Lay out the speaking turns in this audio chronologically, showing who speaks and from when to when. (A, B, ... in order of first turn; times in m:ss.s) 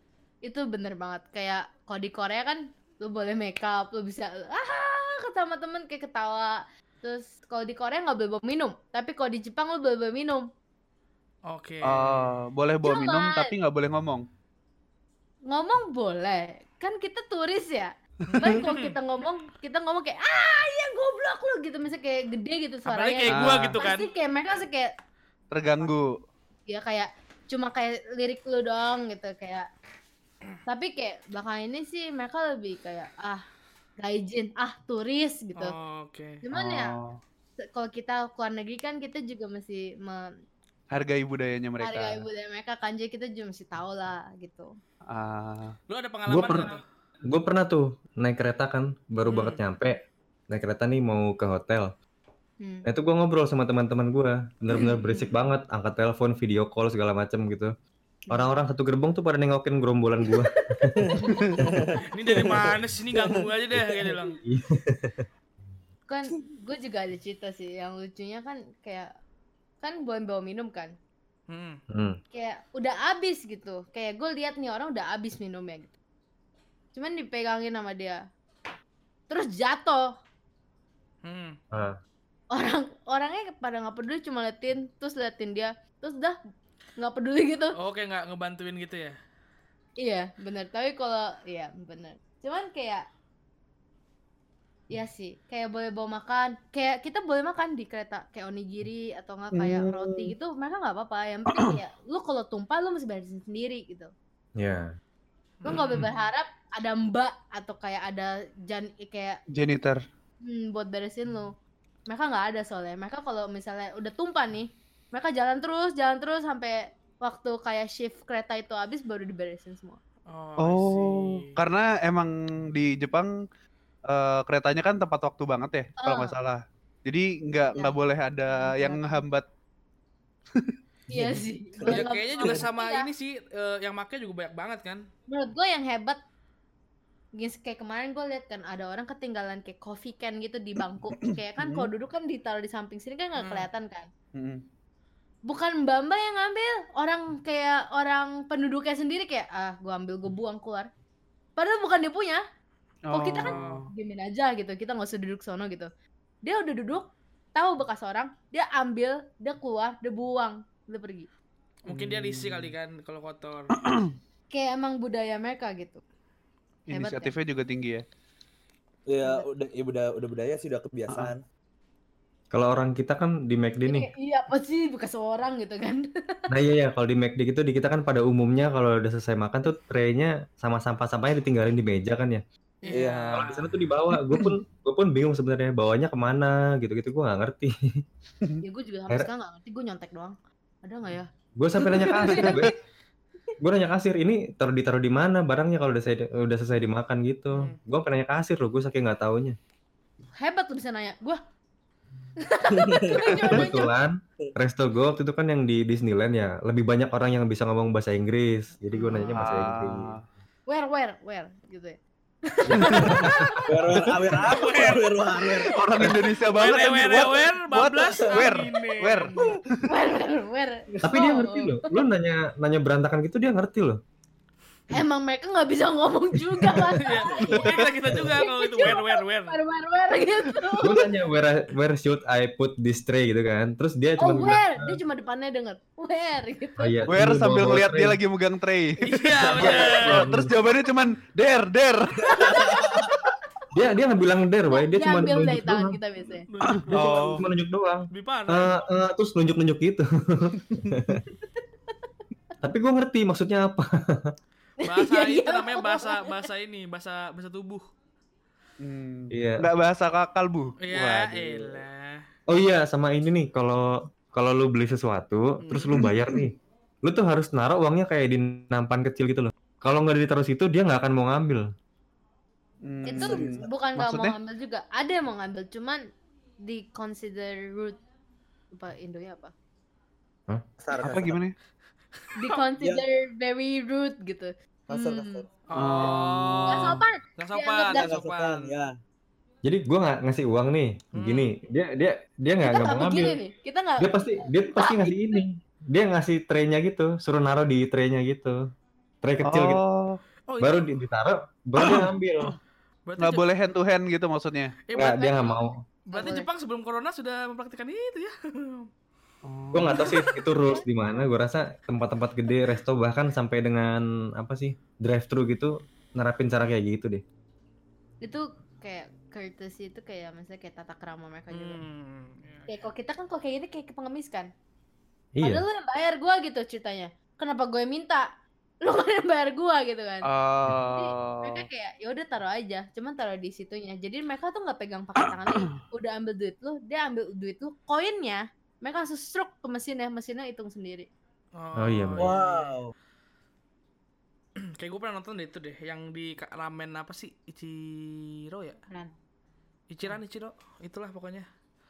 0:00.4-0:10.5 A
0:11.5-0:12.4 B
0:11.8-0:14.3 C
0:12.8-0:13.5 A
0:15.5-0:24.9 A
0:18.3-0:18.6 C
0:18.3-0:19.0 B
0:22.9-0:24.1 B
0:23.3-0:23.8 C
0:25.5-0:26.2 C
0:26.7-0:29.7 A
0:30.7-0:33.4 A
0:34.0-0:35.7 A
0:35.6-0:36.4 B
0:36.4-0:37.0 A
0:36.5-0:37.2 C
0:37.6-0:40.3 A
0:40.9-0:42.3 C
0:41.8-0:44.7 A
0:45.1-0:45.8 C
0:45.9-0:46.8 B
0:46.3-0:51.9 D
0:49.3-0:49.6 B
0:52.6-0:52.9 A
0:52.9-0:57.7 D
0:54.8-0:55.3 A
0:58.3-0:58.6 A
0:58.3-1:01.1 D
1:01.0-1:01.7 A
1:01.0-1:03.4 E
1:02.1-1:04.4 B
1:04.4-1:05.2 D
1:06.1-1:09.1 A
1:09.8-1:11.0 A
1:11.5-1:11.8 B
1:11.9-1:12.2 D
1:12.3-1:15.9 A
1:16.9-1:18.2 A
1:19.3-1:20.1 A
1:21.2-1:21.6 B
1:21.7-1:22.0 D
1:22.5-1:26.4 A
1:27.0-1:27.8 A
1:27.8-1:29.2 B
1:30.0-1:33.1 A
1:34.9-1:44.1 A
1:39.5-1:40.3 C
1:41.5-1:41.8 C
1:44.6-1:44.9 D
1:45.6-1:46.1 B
1:45.6-1:49.4 A
1:49.5-1:50.0 C
1:50.4-1:51.6 A
1:52.1-2:00.0 A
2:00.3-2:01.6 B
2:00.6-2:03.3 C
2:04.1-2:09.5 C
2:06.0-2:06.4 A
2:08.5-2:09.3 A
2:11.1-2:13.1 A
2:11.9-2:15.1 B
2:15.3-2:16.2 A
2:17.4-2:24.1 A
2:21.6-2:21.9 C
2:23.4-2:23.7 B
2:24.4-2:24.6 C
2:25.5-2:30.9 A
2:31.6-2:32.4 A
2:33.1-2:33.9 C
2:33.1-2:35.9 A
2:33.4-2:33.9 B
2:36.4-2:41.3 A
2:41.8-2:43.7 B
2:41.9-2:42.7 C
2:43.7-2:44.1 C
2:44.5-2:46.0 A
2:46.9-2:48.0 C
2:46.9-2:47.3 A
2:49.1-2:51.4 E
2:52.5-2:54.1 D
2:53.8-2:56.4 A
2:56.5-3:02.4 D
3:02.8-3:03.1 A
3:02.8-3:03.6 B
3:02.9-3:03.6 E
3:03.3-3:08.0 D
3:04.2-3:04.6 C
3:08.6-3:12.8 A
3:11.6-3:12.7 D
3:12.1-3:12.6 C
3:13.6-3:19.6 D
3:20.4-3:21.4 A
3:22.4-3:23.9 A
3:22.7-3:23.5 E
3:23.4-3:30.1 D
3:29.0-3:29.3 A
3:29.3-3:30.2 C
3:30.7-3:33.7 A
3:32.7-3:33.4 D
3:32.8-3:33.1 C
3:32.9-3:33.4 B
3:33.7-3:36.1 E
3:34.3-3:35.6 B
3:35.7-3:39.9 C
3:36.5-3:39.4 B
3:39.4-3:41.9 A
3:41.0-3:44.0 D
3:44.9-3:51.1 A
3:47.0-3:49.6 B
3:50.8-3:55.0 D
3:54.2-3:57.1 A
3:56.8-3:58.2 D
3:57.1-4:02.6 C
3:59.0-4:00.3 B
3:59.6-4:00.6 D
4:02.2-4:03.2 A
4:02.3-4:03.1 E
4:03.7-4:06.0 D
4:04.7-4:06.5 A
4:06.5-4:07.5 B
4:06.8-4:07.5 C
4:06.9-4:11.2 D
4:08.1-4:08.8 B
4:12.6-4:14.3 D
4:14.8-4:16.5 A
4:14.8-4:17.9 B
4:18.8-4:21.9 C
4:19.3-4:19.7 D
4:20.8-4:22.2 B
4:22.5-4:31.7 D
4:25.6-4:25.9 B
4:32.8-4:34.4 C
4:33.0-4:36.0 A
4:33.2-4:33.7 E
4:36.6-4:38.0 A
4:38.7-4:39.5 A
4:40.8-4:41.4 E
4:41.0-4:41.6 C
4:42.4-4:45.4 A
4:44.9-4:45.5 E
4:45.7-4:48.8 B
4:45.7-4:47.0 C
4:46.7-4:48.1 A
4:47.9-4:48.9 E
4:49.6-4:53.4 D
4:51.2-4:51.5 B
4:52.6-4:55.4 A
4:54.0-4:58.6 D
4:59.2-4:59.8 D
4:59.4-5:00.2 C
5:00.5-5:00.9 B
5:00.6-5:02.5 D
5:01.8-5:02.1 C
5:03.1-5:03.4 B
5:03.2-5:04.8 C
5:04.9-5:08.9 B
5:05.0-5:05.8 D
5:06.1-5:06.5 A
5:09.4-5:10.3 C
5:09.7-5:17.2 D
5:18.2-5:21.8 A
5:21.5-5:22.7 B
5:22.7-5:24.5 A
5:25.4-5:25.6 D
5:25.4-5:28.3 A
5:28.8-5:30.3 A
5:30.2-5:31.7 C
5:30.9-5:41.1 A
5:41.6-5:42.7 B
5:41.8-5:42.4 D
5:42.2-5:42.9 E
5:44.6-5:48.8 B
5:48.9-5:49.1 A
5:49.9-5:51.5 B